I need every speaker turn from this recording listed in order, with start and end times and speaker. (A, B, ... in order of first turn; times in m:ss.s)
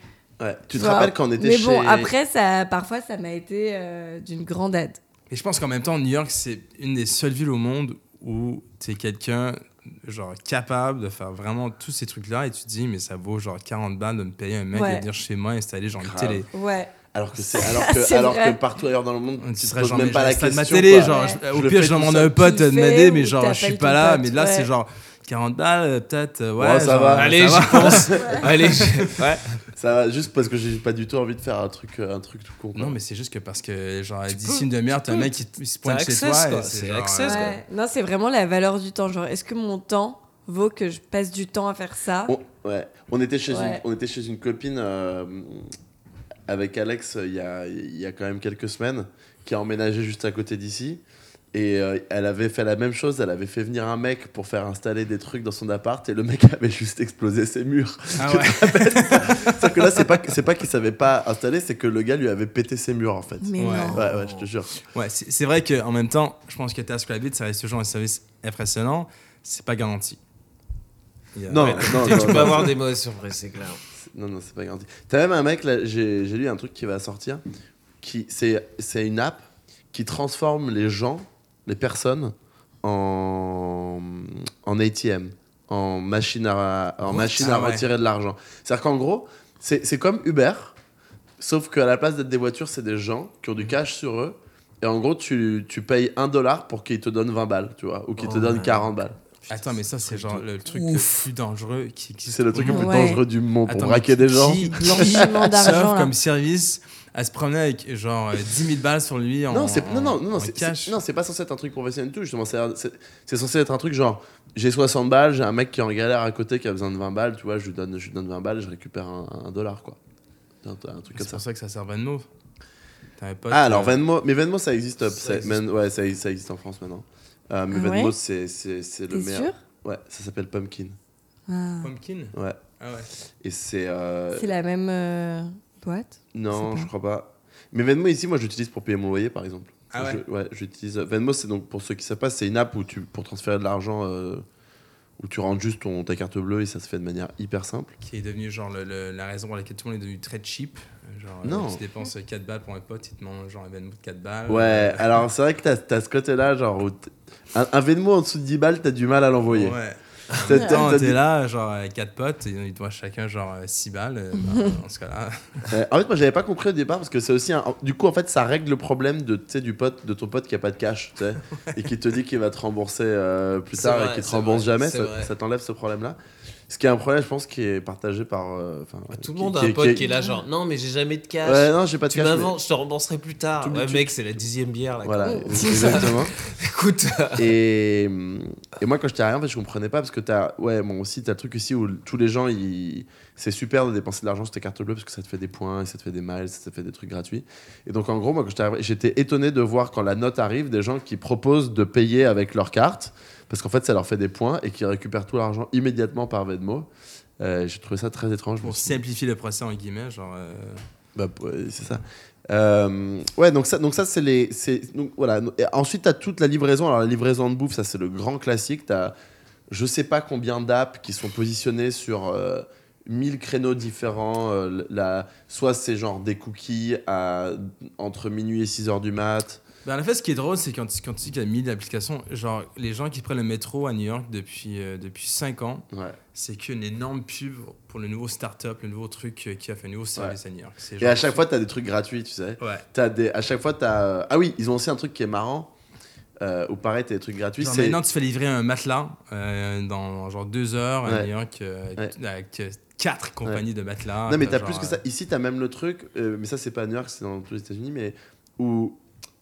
0:00.4-0:02.1 A
0:00.7-0:05.0 B
0:05.3-0:16.5 C
0:14.7-0:15.1 B
0:16.0-0:16.5 A
0:16.5-0:16.9 B
0:17.1-0:22.4 A
0:17.5-0:18.6 B
0:19.4-0:29.2 C
0:21.0-0:21.4 B
0:22.4-0:24.7 B
0:26.6-0:28.4 A
0:27.1-0:29.6 D
0:28.2-0:28.4 B
0:29.8-0:33.0 A
0:32.8-0:37.5 C
0:34.3-0:37.6 D
0:37.2-0:42.4 B
0:42.3-0:45.7 A
0:43.5-0:43.8 B
0:46.5-0:51.0 A
0:51.5-1:04.7 A
0:58.2-1:00.0 C
1:03.4-1:04.0 B
1:03.6-1:04.0 C
1:04.0-1:04.5 D
1:04.8-1:10.2 C
1:11.4-1:12.7 C
1:11.5-1:12.8 A
1:11.5-1:13.8 D
1:14.0-1:17.4 A
1:18.0-1:30.8 A
1:27.1-1:27.9 C
1:31.4-1:39.6 A
1:38.2-1:38.9 D
1:39.5-1:43.1 C
1:40.1-1:40.4 A
1:40.7-1:41.3 D
1:42.3-1:45.8 A
1:42.7-1:43.2 B
1:43.7-1:51.0 C
1:44.8-1:46.1 B
1:49.5-2:00.0 A
2:00.6-2:01.4 A
2:01.1-2:02.3 C
2:03.2-2:04.0 C
2:03.5-2:11.0 A
2:07.7-2:08.2 B
2:09.1-2:09.6 B
2:11.5-2:11.9 B
2:11.8-2:13.1 C
2:13.4-2:14.5 A
2:14.3-2:16.9 B
2:16.3-2:24.4 A
2:19.9-2:20.2 C
2:25.2-2:27.9 A
2:28.0-2:35.2 C
2:31.4-2:31.8 A
2:34.5-2:39.8 A
2:39.5-2:45.7 C
2:40.3-2:41.2 A
2:45.7-2:56.2 A
2:53.8-2:55.3 D
2:56.7-3:00.1 A
2:59.1-3:07.5 D
3:00.0-3:00.4 B
3:01.4-3:02.6 A
3:03.6-3:04.1 A
3:05.0-3:06.4 A
3:05.2-3:06.1 B
3:07.4-3:29.0 A
3:28.6-3:30.8 C
3:31.2-3:39.2 A
3:39.7-3:49.6 A
3:49.8-4:01.4 C
3:55.9-3:56.2 A
4:01.0-4:05.7 A
4:02.6-4:02.8 C
4:06.4-4:08.0 A
4:07.6-4:15.0 C
4:11.0-4:11.3 A
4:14.3-4:19.0 A